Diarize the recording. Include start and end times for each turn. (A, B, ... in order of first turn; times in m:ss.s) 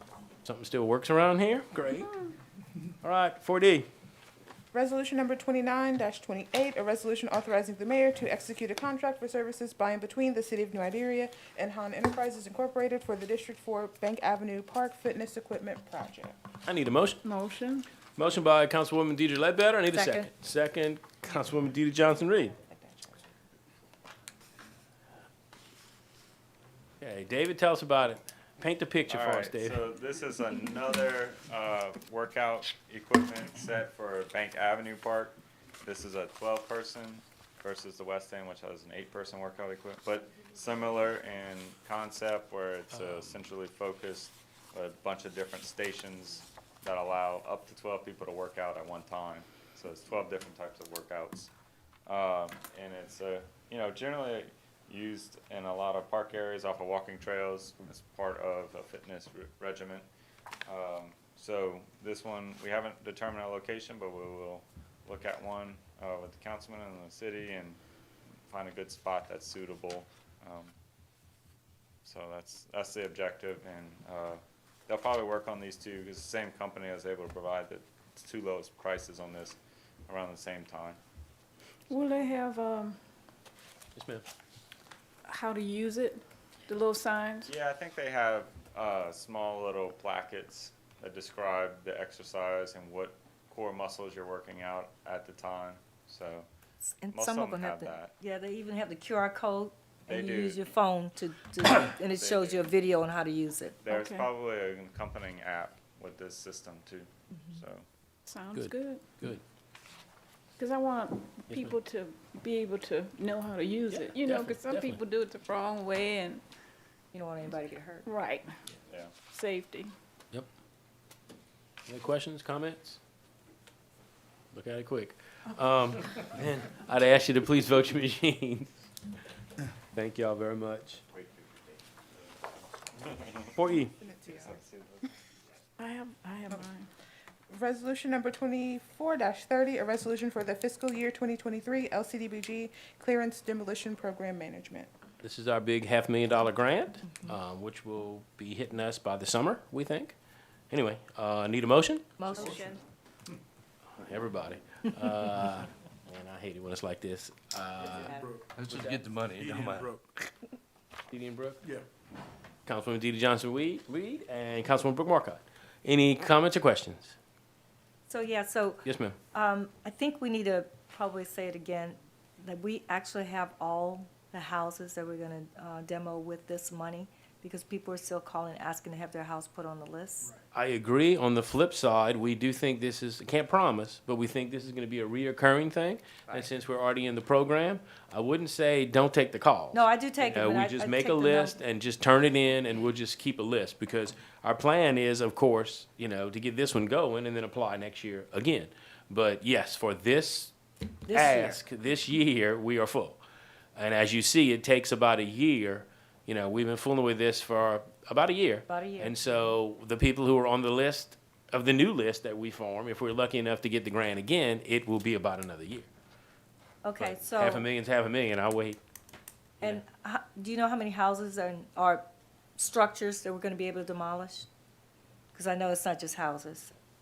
0:00.4-0:02.1 A
0:03.0-0:03.9 A
0:04.7-0:16.4 B
0:16.6-0:17.2 A
0:17.2-0:17.9 C
0:18.2-0:22.6 A
0:19.9-0:20.3 D
0:22.7-0:23.2 B
0:27.0-0:29.8 A
0:29.1-0:51.5 E
0:42.9-0:43.3 A
0:52.1-1:00.1 E
1:00.7-1:07.8 E
1:08.5-1:10.7 E
1:12.0-1:21.0 E
1:21.9-1:23.0 C
1:23.9-1:24.2 A
1:25.2-1:27.5 C
1:27.4-1:36.5 E
1:36.8-1:43.8 D
1:37.1-1:38.1 E
1:40.1-1:40.6 E
1:42.1-1:42.7 E
1:43.8-1:47.8 E
1:43.9-1:44.3 C
1:48.2-1:49.0 C
1:48.5-1:49.4 A
1:50.6-1:56.4 C
1:51.5-1:51.8 A
1:53.9-1:55.0 A
1:57.1-1:58.1 D
1:58.0-1:58.5 C
1:59.3-1:59.9 C
2:01.9-2:03.0 A
2:04.5-2:08.8 A
2:09.9-2:11.0 A
2:11.1-2:11.8 E
2:12.9-2:13.5 E
2:13.5-2:13.9 A
2:14.0-2:14.6 B
2:14.3-2:15.1 E
2:15.8-2:16.9 C
2:17.5-2:24.9 B
2:25.2-2:30.1 A
2:30.7-2:32.1 A
2:32.2-2:32.8 D
2:32.3-2:32.7 C
2:33.9-2:39.0 A
2:38.2-2:40.2 F
2:41.1-2:41.6 A
2:42.6-2:47.2 A
2:48.1-3:00.3 D
2:48.8-2:49.2 A
3:00.5-3:20.5 A
3:09.7-3:11.6 D
3:21.1-3:21.6 D
3:21.1-3:23.2 A
3:23.8-3:35.9 A
3:28.7-3:29.5 D
3:36.8-3:37.7 D
3:37.0-3:38.8 A
3:39.6-3:42.0 D
3:42.6-3:44.5 D
3:45.3-3:46.7 D